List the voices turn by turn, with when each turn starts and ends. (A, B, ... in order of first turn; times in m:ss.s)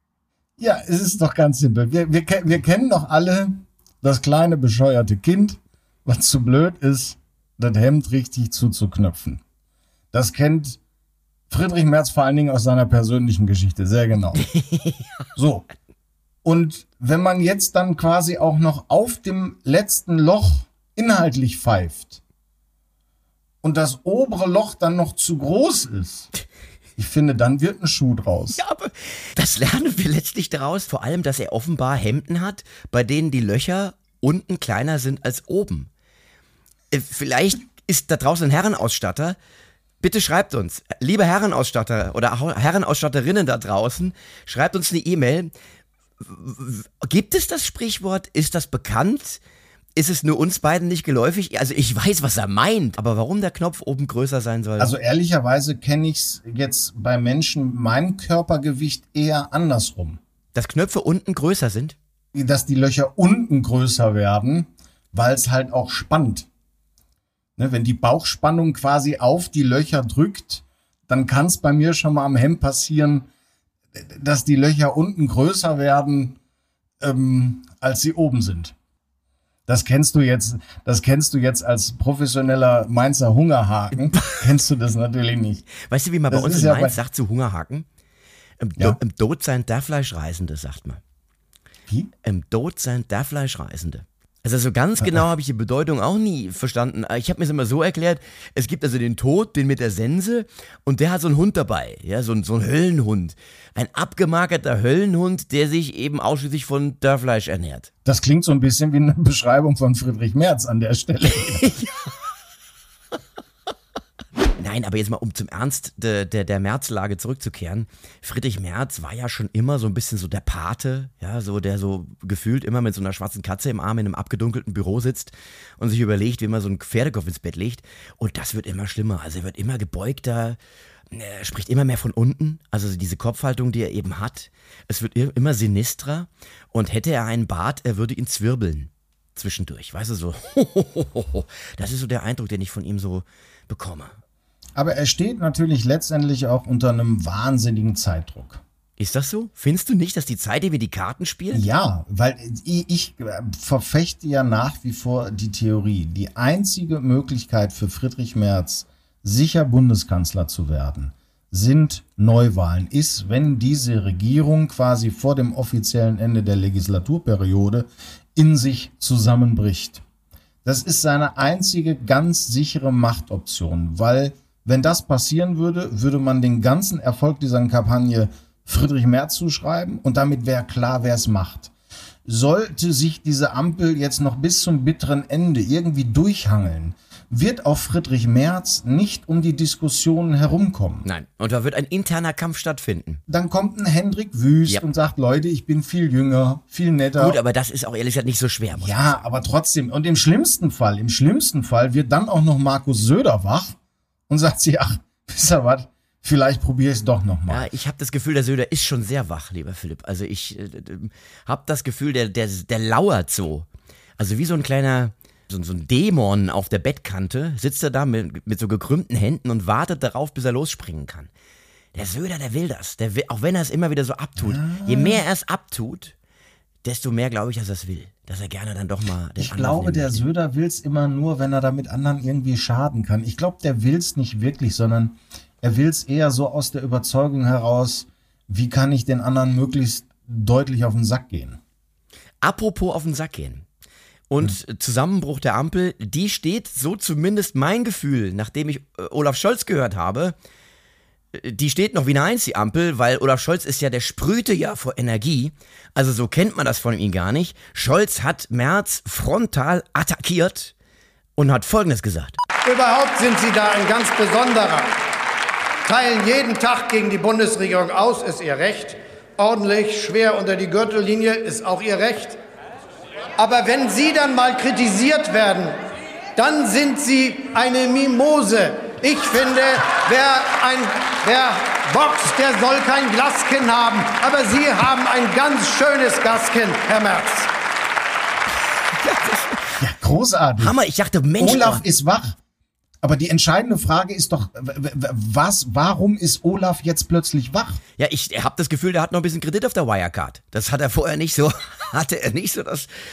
0:00.6-0:09.4 A
0:10.1-0:10.8 A
0:11.5-0:14.5 A
0:14.5-0:15.0 B
0:15.4-0:15.6 A
0:16.4-0:22.2 A
0:23.6-0:26.3 A
0:27.0-0:28.6 A
0:28.5-0:35.9 B
0:36.9-0:39.4 B
0:40.0-0:45.5 B
0:46.2-0:49.4 B
0:50.0-0:54.9 B
0:54.8-1:00.2 A
1:00.6-1:02.0 B
1:02.3-1:06.5 A
1:07.6-1:13.3 A
1:14.0-1:16.4 A
1:17.0-1:18.8 A
1:19.7-1:25.7 A
1:25.8-1:27.9 B
1:26.3-1:27.0 A
1:28.6-1:31.0 B
1:32.2-1:47.9 B
1:48.0-1:51.8 A
1:54.6-2:10.6 B
2:11.1-2:24.2 B
2:24.8-2:28.6 A
2:29.0-2:31.7 B
2:31.5-2:50.0 A
2:50.6-3:01.7 A
3:02.2-3:11.1 A
3:11.0-3:13.2 B
3:13.3-3:17.4 A
3:17.2-3:19.2 B
3:18.8-3:23.8 A
3:24.3-3:27.7 A
3:27.5-3:33.7 B
3:34.2-3:41.3 B
3:42.0-3:46.1 B
3:44.4-3:45.2 A
3:46.8-3:50.2 B
3:49.4-4:01.6 A
4:02.4-4:03.6 B
4:04.3-4:10.4 B
4:11.3-4:20.7 B
4:21.4-4:22.4 B
4:22.6-4:24.9 C
4:25.9-4:32.4 C
4:33.4-4:35.8 C
4:36.4-4:47.5 C
4:49.0-4:49.8 B
4:49.8-4:50.8 A
4:50.6-4:51.8 B
4:51.4-4:52.4 A
4:53.0-4:57.8 A
4:58.0-5:02.9 B